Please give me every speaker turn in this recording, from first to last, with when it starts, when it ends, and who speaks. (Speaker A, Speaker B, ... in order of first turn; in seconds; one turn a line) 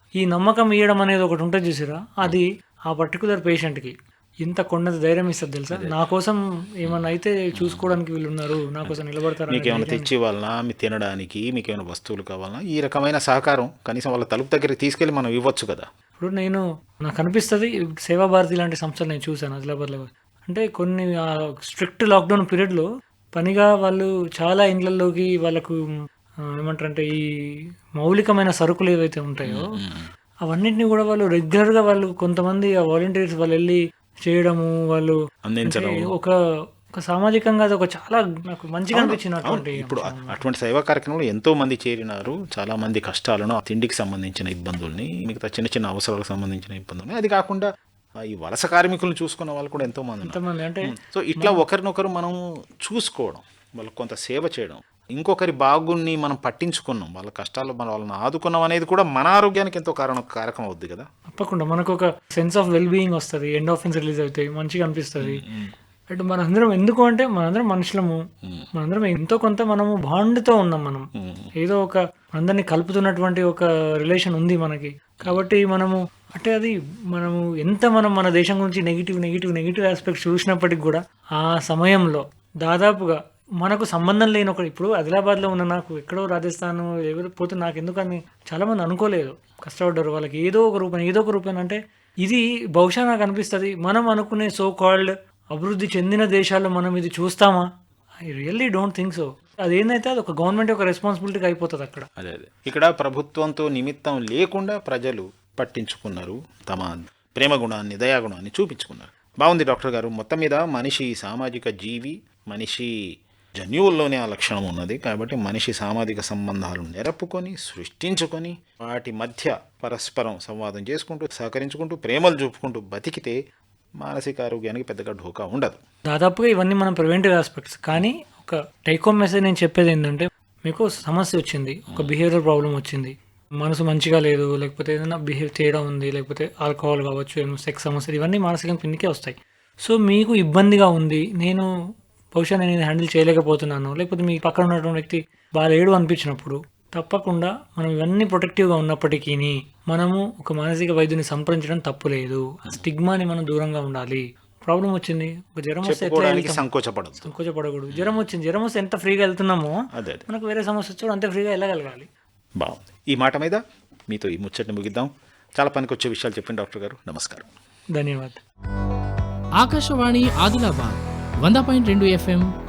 Speaker A: 0.2-10.1
Speaker B: 6.8-8.0
Speaker B: 8.8-15.8
Speaker A: 16.2-21.1
Speaker A: 21.7-25.8
Speaker A: 26.6-27.2
Speaker A: 28.0-29.6
Speaker B: 29.4-30.1
Speaker A: 30.4-35.1
Speaker B: 35.4-36.1
Speaker A: 35.6-36.3
Speaker A: 37.0-40.4
Speaker B: 38.9-47.6
Speaker B: 48.3-61.1
Speaker A: 50.2-51.6
Speaker A: 61.3-65.4
Speaker B: 65.2-65.7
Speaker A: 66.1-68.2
Speaker A: 68.7-71.1
Speaker B: 71.2-71.5
Speaker A: 71.6-97.6
Speaker B: 75.2-75.5
Speaker A: 98.3-102.1
Speaker B: 102.2-112.9
Speaker B: 113.6-123.3
Speaker B: 124.0-125.8
Speaker A: 126.1-141.7
Speaker A: 142.3-156.6
Speaker B: 155.8-157.3
Speaker A: 157.2-162.1
Speaker B: 157.9-158.2
Speaker B: 159.9-160.3
Speaker B: 162.6-167.4
Speaker A: 167.9-168.4
Speaker C: 169.6-172.4